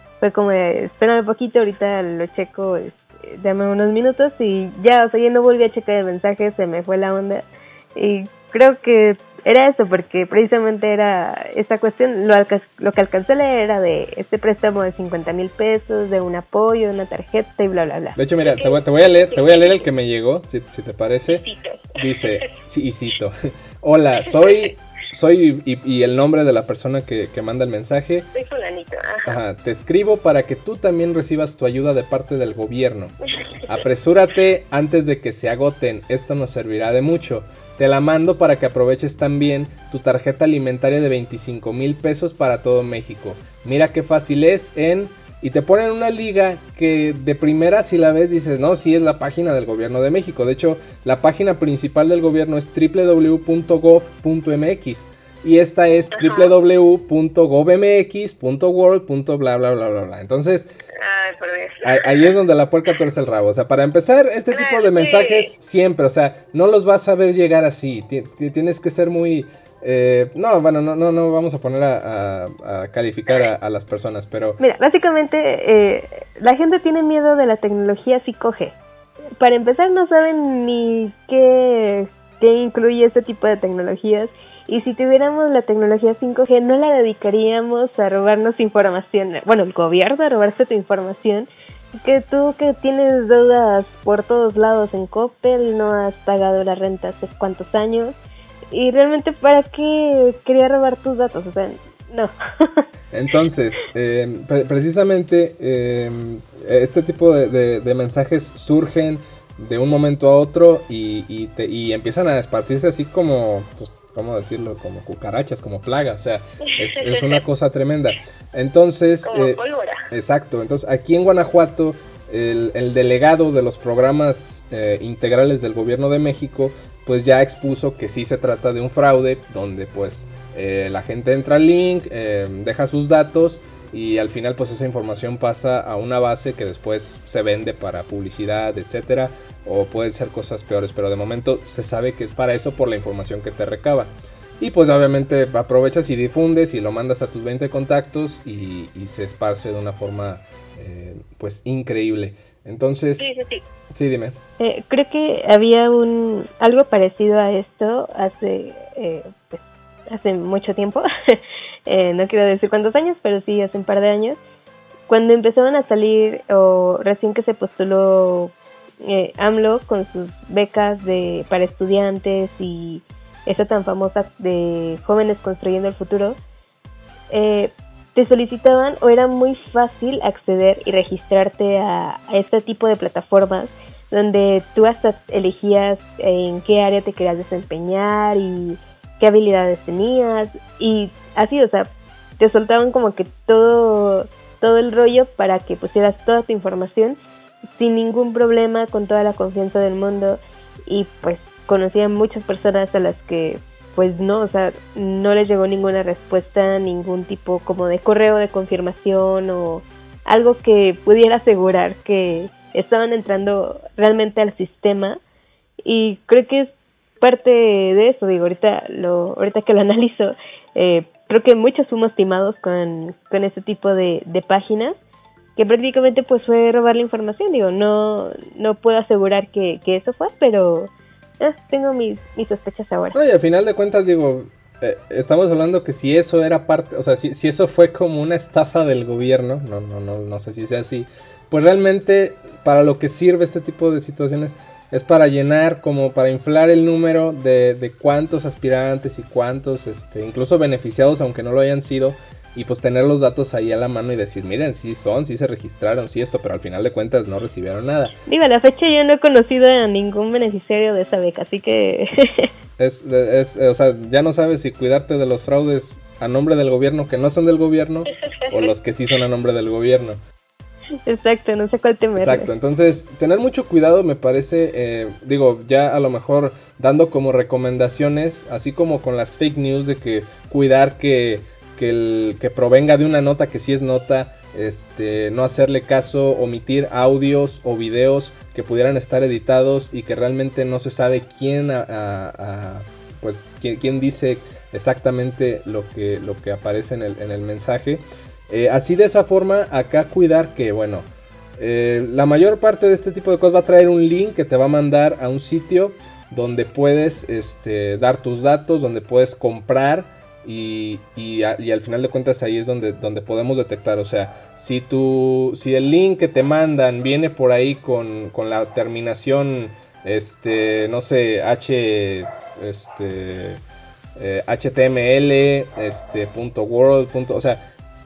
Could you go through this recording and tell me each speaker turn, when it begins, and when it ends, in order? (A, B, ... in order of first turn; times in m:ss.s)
0:00.2-0:18.2 A
0:18.2-0:28.3 B
0:18.4-0:19.8 C
0:21.3-0:22.4 C
0:28.3-0:29.4 C
0:29.2-0:33.1 B
0:33.7-1:00.7 B
0:56.1-0:56.5 C
1:01.0-1:02.3 C
1:01.8-1:14.6 B
1:04.5-1:05.5 C
1:14.6-1:18.8 A
1:19.4-1:38.2 A
1:38.7-1:42.8 A
1:43.1-2:33.3 B
1:56.9-1:57.4 C
1:59.2-2:00.0 C
2:33.2-2:33.6 C
2:33.9-2:34.3 B
2:34.6-2:44.4 A
2:45.1-2:56.4 A
2:57.3-3:35.2 A
3:35.8-3:45.0 A
3:45.6-3:53.2 A
3:53.1-4:18.2 B
4:18.3-4:22.5 A
4:22.8-4:30.2 B
4:31.1-4:32.5 A
4:32.2-5:23.6 B
5:24.2-5:27.6 B